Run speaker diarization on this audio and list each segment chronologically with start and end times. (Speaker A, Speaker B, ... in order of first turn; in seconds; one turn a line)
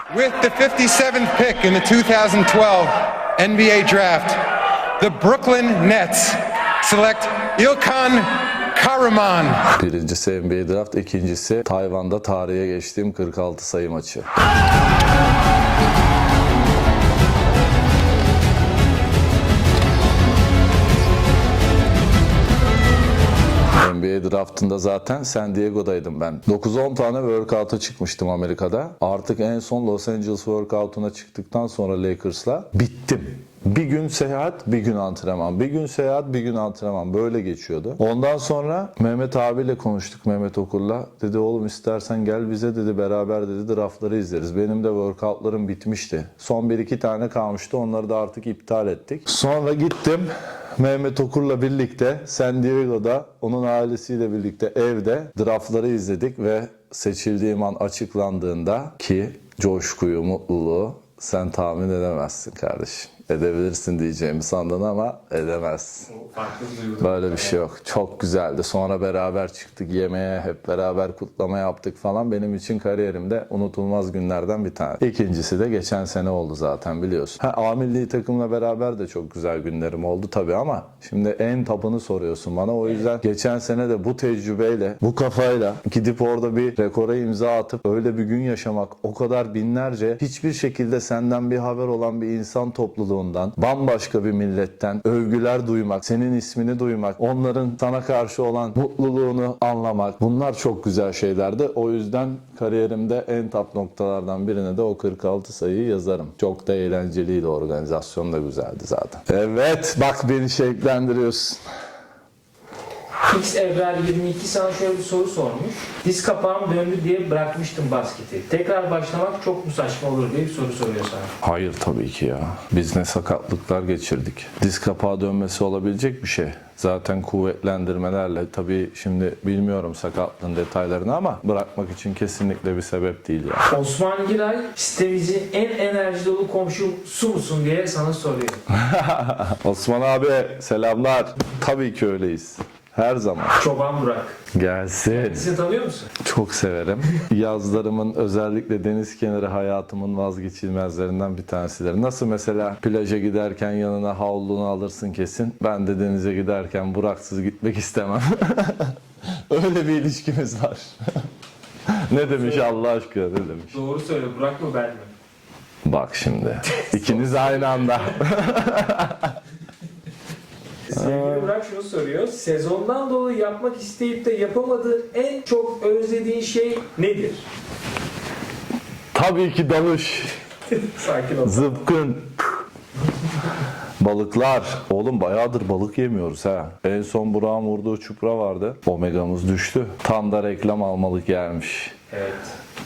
Speaker A: 0.1-4.5
Speaker A: 5.0-9.6
Speaker B: 9.7-14.3
Speaker B: 23.8-66.1
Speaker C: 66.1-67.6
Speaker B: 67.0-111.6
Speaker C: 113.3-121.3
Speaker B: 121.4-133.7
Speaker C: 133.7-138.6
Speaker B: 138.7-143.6
Speaker C: 143.6-144.4
Speaker B: 144.5-145.5
Speaker C: 145.1-146.1
Speaker B: 146.2-159.0
Speaker B: 159.5-161.3
Speaker B: 161.9-163.8
Speaker C: 162.2-162.8
Speaker C: 163.7-165.1
Speaker B: 165.8-169.3
Speaker C: 166.8-168.2
Speaker C: 170.9-177.5
Speaker B: 170.9-171.6
Speaker B: 179.1-180.4
Speaker C: 180.7-182.0
Speaker B: 181.4-182.6
Speaker B: 184.0-191.9
Speaker C: 192.1-192.5